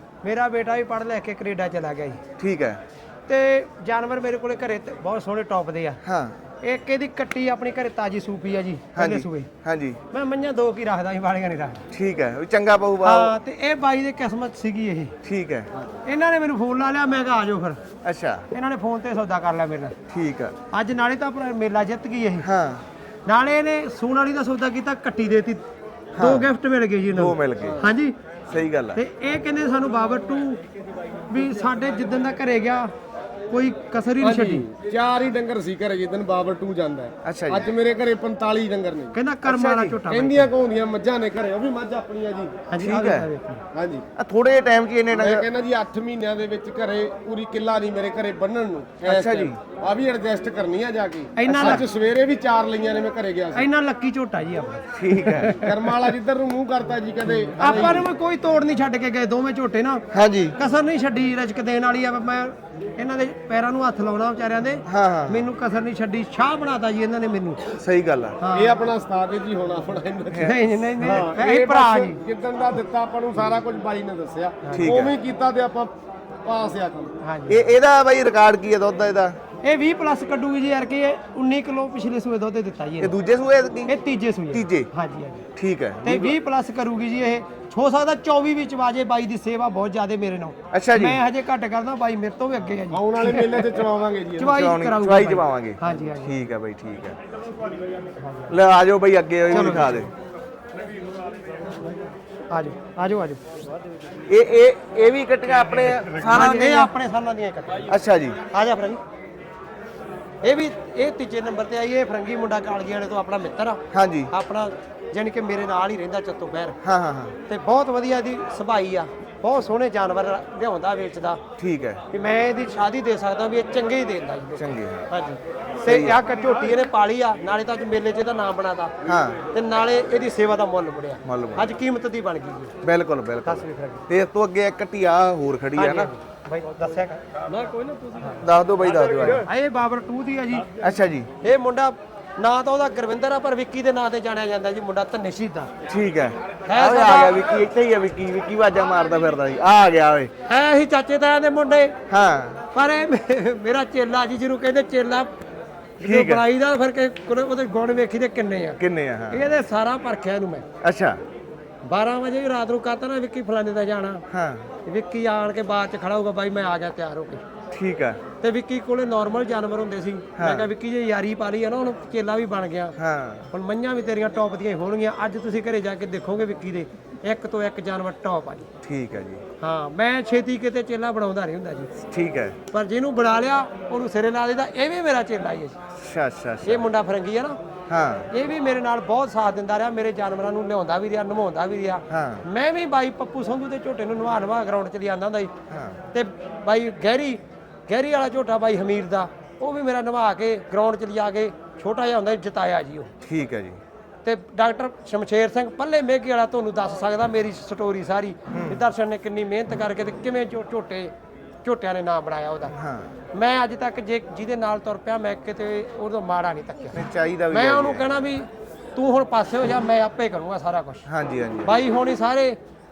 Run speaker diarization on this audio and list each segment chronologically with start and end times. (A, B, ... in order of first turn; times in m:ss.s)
0:00.2-0:02.2 A
0:02.4-0:02.8 B
0:03.3-0:06.0 A
0:06.0-0:06.4 B
0:06.6-0:09.5 A
0:08.9-0:10.0 B
0:10.1-0:11.8 A
0:11.9-0:13.4 B
0:13.0-0:15.1 A
0:15.2-0:15.9 B
0:16.0-0:17.8 A
0:18.0-0:18.5 B
0:18.5-0:20.0 A
0:20.1-0:20.6 B
0:20.7-0:22.5 A
0:22.4-0:22.8 B
0:23.2-0:25.6 A
0:26.2-0:26.5 B
0:26.2-0:28.2 A
0:27.1-0:27.8 B
0:28.5-0:29.0 B
0:28.9-0:30.6 A
0:31.3-0:32.9 A
0:33.5-0:34.7 A
0:34.2-0:39.1 C
0:37.2-0:37.7 B
0:39.1-0:40.5 A
0:39.4-0:40.0 B
0:40.0-0:42.6 C
0:42.7-0:43.6 A
0:42.8-0:43.3 B
0:43.7-0:44.0 C
0:44.2-0:45.4 B
0:45.1-0:53.7 C
0:49.0-0:49.6 B
0:51.4-0:51.8 A
0:51.5-0:51.8 B
0:53.5-0:55.9 A
0:54.9-0:55.6 B
0:55.6-0:58.0 C
0:57.5-1:07.6 A
1:00.1-1:00.6 B
1:04.8-1:05.5 B
1:07.8-1:08.4 B
1:08.4-1:08.8 A
1:08.5-1:15.9 C
1:10.4-1:12.2 A
1:14.6-1:14.9 A
1:14.7-1:15.1 B
1:16.4-1:17.1 C
1:17.2-1:17.7 A
1:17.5-1:19.4 B
1:19.6-1:23.1 A
1:23.0-1:23.9 B
1:23.9-1:25.4 A
1:24.5-1:24.9 B
1:25.6-1:26.3 B
1:26.0-1:33.7 A
1:30.7-1:31.2 B
1:32.9-1:34.5 C
1:34.4-1:36.3 A
1:34.4-1:37.2 B
1:38.2-1:38.5 A
1:38.5-1:40.1 B
1:39.5-1:40.1 A
1:42.5-1:43.4 A
1:44.3-1:46.9 B
1:46.2-1:47.9 A
1:47.9-1:48.4 B
1:48.5-1:49.0 A
1:50.4-1:56.8 A
1:53.9-1:54.3 B
1:56.8-1:57.4 B
1:57.5-2:01.4 A
2:01.6-2:02.0 B
2:02.1-2:08.9 A
2:04.6-2:05.1 B
2:05.8-2:06.2 B
2:09.0-2:09.4 B
2:09.5-2:12.7 A
2:11.2-2:11.8 B
2:12.8-2:16.1 B
2:13.4-2:14.0 A
2:15.8-2:18.4 A
2:18.4-2:19.5 B
2:19.4-2:20.7 A
2:20.8-2:21.3 B
2:21.4-2:25.7 A
2:25.8-2:30.3 B
2:26.6-2:27.4 A
2:30.4-2:32.0 A
2:32.1-2:32.6 B
2:32.7-2:35.3 A
2:36.0-2:38.8 A
2:36.0-2:36.4 B
2:38.8-2:39.5 B
2:39.3-2:40.6 A
2:40.8-2:41.2 B
2:41.8-2:44.2 A
2:44.3-2:44.7 B
2:44.8-2:47.4 A
2:47.7-2:48.2 B
2:48.4-2:53.0 A
2:50.4-2:50.7 B
2:53.0-2:53.5 B
2:53.5-2:58.7 A
2:58.8-2:59.4 B
2:59.6-3:01.9 A
3:02.0-3:02.6 B
3:02.7-3:05.8 A
3:05.9-3:06.9 B
3:06.6-3:07.6 A
3:07.9-3:08.3 B
3:08.3-3:15.5 A
3:12.1-3:12.4 B
3:15.7-3:16.0 B
3:16.1-3:23.1 A
3:23.2-3:23.8 B
3:24.2-3:31.1 A
3:28.5-3:28.8 B
3:31.6-3:32.7 A
3:32.7-3:33.1 B
3:33.3-3:41.0 A
3:36.9-3:38.2 B
3:41.0-3:41.8 B
3:41.6-3:42.6 A